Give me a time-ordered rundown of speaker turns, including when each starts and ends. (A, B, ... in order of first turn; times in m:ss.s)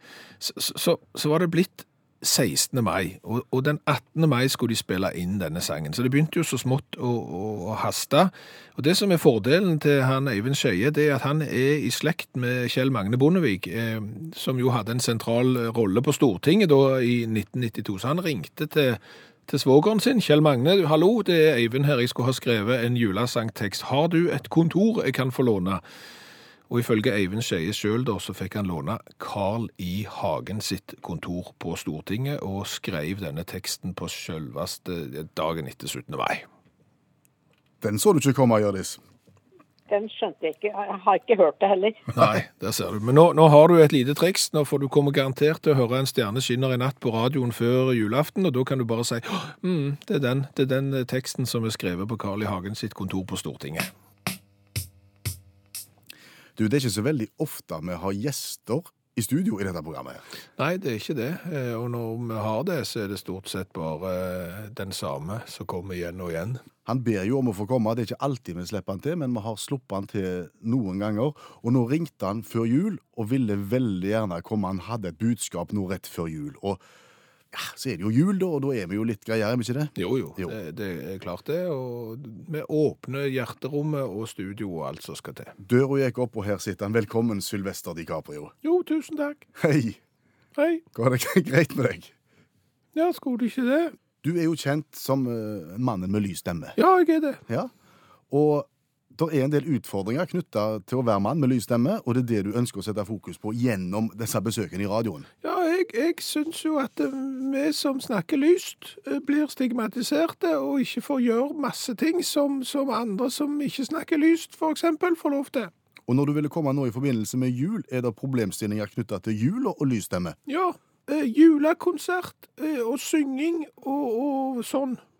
0:00.4-0:25.8 A
0:26.7-0:36.4 A
0:37.8-0:39.0 B
0:39.9-0:42.0 C
0:42.1-0:53.9 A
0:56.6-1:00.2 B
1:00.6-1:06.6 A
1:06.8-1:16.8 B
1:17.5-1:20.5 B
1:20.0-1:25.5 A
1:25.6-1:28.5 B
1:28.6-1:29.4 A
1:29.6-1:30.0 B
1:30.6-1:30.8 A
1:30.9-1:32.1 B
1:32.9-1:33.9 A
1:34.2-1:36.8 B
1:36.8-1:37.4 A
1:38.3-1:45.3 B
1:45.4-1:55.7 A
1:56.1-2:00.4 B
2:00.5-2:05.0 A